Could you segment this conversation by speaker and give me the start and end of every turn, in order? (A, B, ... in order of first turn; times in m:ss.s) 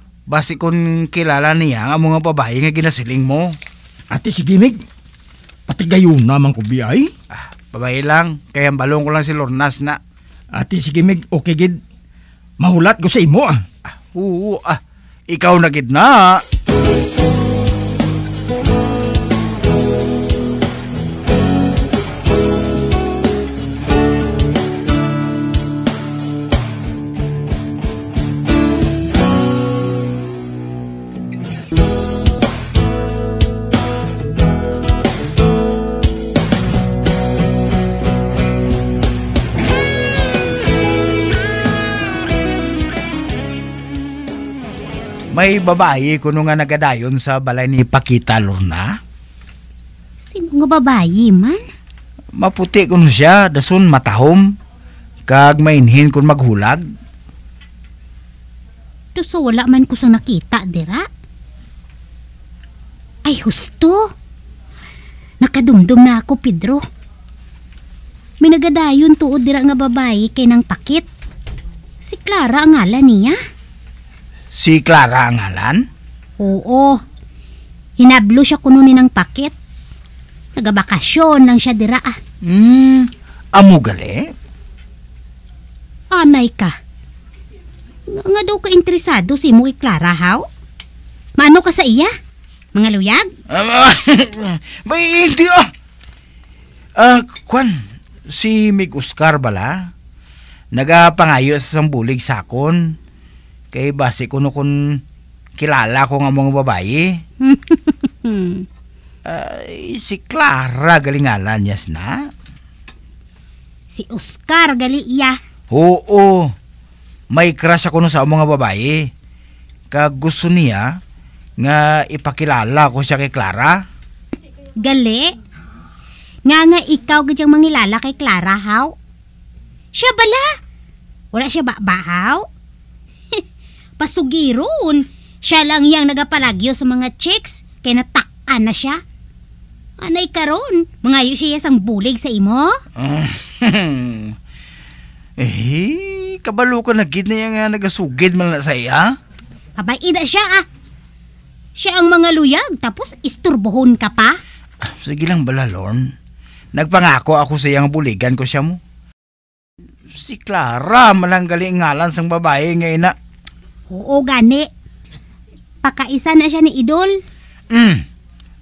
0:00.3-0:03.5 A
0:04.1-0:04.8 B
0:05.7-0:07.1 B
0:07.3-0:10.0 A
0:10.6-0:11.8 B
0:12.6-0:13.6 B
0:13.9-0:16.4 A
0:45.3-0:48.9 A
0:50.2-0:51.6 C
0:52.4-0:54.4 A
0:55.2-0:56.8 A
0:59.1-1:01.0 C
1:03.2-1:04.0 C
1:05.4-1:06.8 C
1:08.4-1:11.1 C
1:12.0-1:13.4 C
1:14.5-1:15.8 A
1:16.4-1:17.0 C
1:18.0-1:19.5 C
1:20.6-1:22.2 C
1:22.4-1:24.3 A
1:26.1-1:26.7 C
1:28.1-1:30.4 C
1:31.4-1:32.1 C
1:32.7-1:33.3 C
1:33.5-1:35.7 A
1:37.0-1:39.9 A
1:40.7-1:42.9 A
1:43.7-1:45.0 A
1:45.6-1:47.1 A
1:47.4-1:48.6 C
1:49.2-1:52.2 A
1:53.9-1:55.4 C
1:55.7-1:56.5 A
1:57.3-1:59.1 A
1:59.9-2:00.8 A
2:01.6-2:03.8 A
2:04.8-2:05.3 C
2:06.5-2:08.9 C
2:09.9-2:10.5 C
2:11.3-2:12.4 C
2:14.0-2:19.0 C
2:20.0-2:22.8 C
2:23.0-2:24.3 A
2:25.4-2:29.1 A
2:29.8-2:30.6 C
2:31.8-2:34.4 C
2:34.9-2:36.1 A
2:36.7-2:38.8 A
2:40.1-2:43.1 A
2:43.9-2:44.7 C
2:45.8-2:47.1 C
2:47.7-2:48.0 A